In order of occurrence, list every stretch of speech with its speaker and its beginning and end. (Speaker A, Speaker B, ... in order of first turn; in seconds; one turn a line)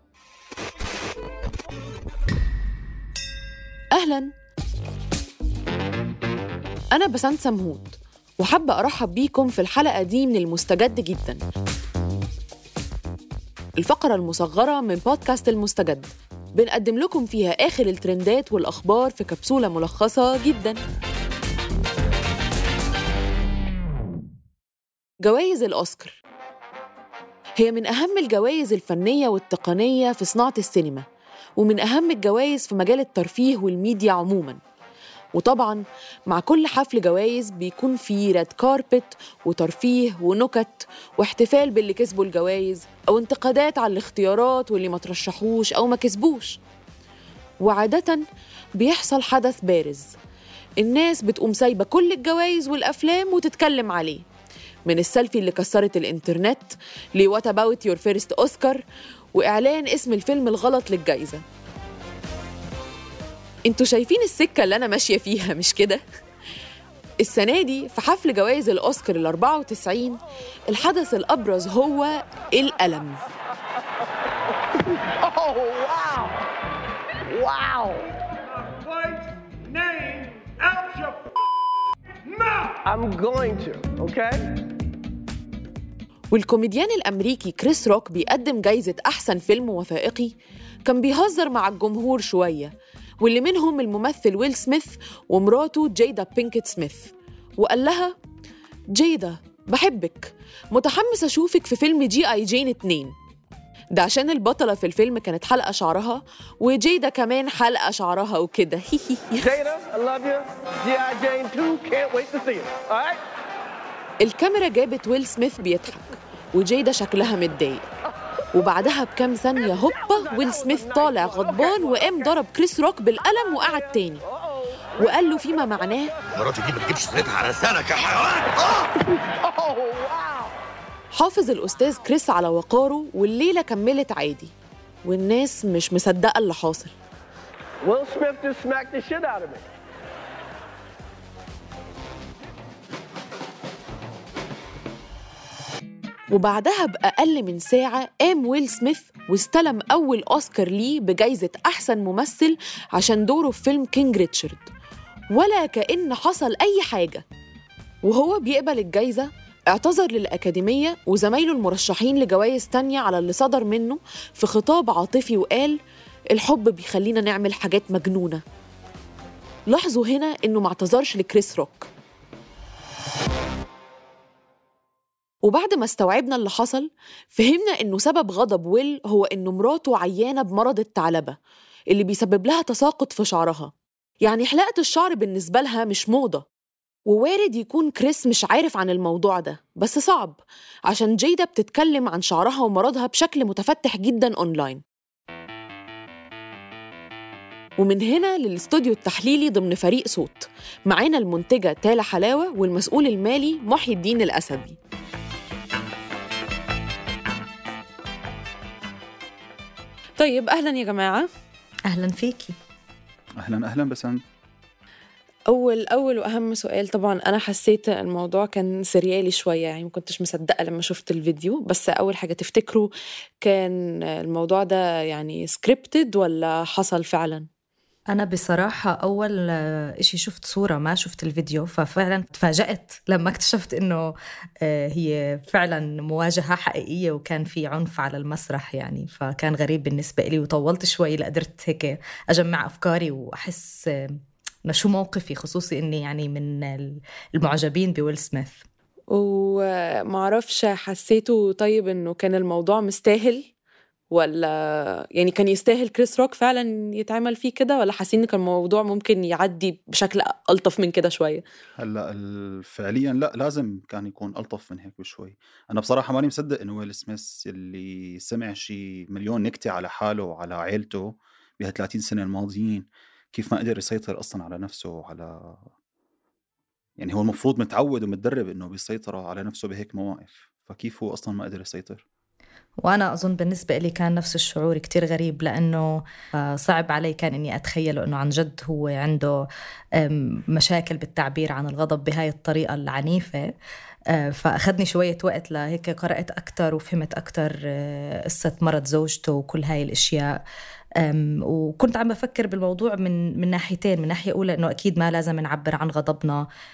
Speaker A: 3.9-4.3
Speaker A: 6.9-11.4
Speaker A: 13.8-20.8
Speaker A: 25.2-26.2
Speaker A: 27.6-31.1
Speaker A: 31.6-34.6
Speaker A: 35.4-46.6
Speaker A: 47.6-48.2
Speaker A: 48.8-50.1
Speaker A: 50.8-54.2
Speaker A: 54.9-61.4
Speaker A: 63.7-66.0
Speaker A: 67.2-73.2
Speaker B: 75.1-76.3
Speaker B: 77.3-78.1
Speaker B: 79.8-80.4
Speaker B: 82.8-84.6
Speaker A: 86.3-90.3
Speaker A: 90.8-98.1
Speaker A: 99.0-103.1
Speaker A: 104.0-109.6
Speaker B: 109.5-113.2
Speaker A: 114.2-117.9
Speaker A: 118.5-124.2
Speaker A: 125.0-126.1
Speaker C: 126.3-128.8
Speaker B: 128.4-130.5
Speaker A: 131.1-134.5
Speaker A: 135.1-136.9
Speaker B: 137.8-139.7
Speaker A: 146.3-154.7
Speaker A: 155.3-157.2
Speaker A: 158.0-165.8
Speaker A: 166.3-168.4
Speaker A: 169.7-171.9
Speaker A: 175.4-181.4
Speaker A: 181.9-183.7
Speaker A: 184.2-186.5
Speaker A: 187.1-194.8
Speaker A: 197.8-204.8
Speaker A: 210.2-211.3
Speaker D: 211.9-212.6
Speaker E: 213.4-214.2
Speaker A: 215.5-222.9
Speaker A: 223.4-227.5
Speaker D: 228.1-244.2
Speaker D: 244.7-248.6
Speaker A: 249.2-253.4
Speaker A: 254.1-261.4
Speaker E: 261.8-275.7
Speaker E: 277.0-282.0
Speaker D: 282.8-289.4
Speaker D: 290.0-293.5
Speaker D: 294.1-300.4
Speaker D: 301.0-306.5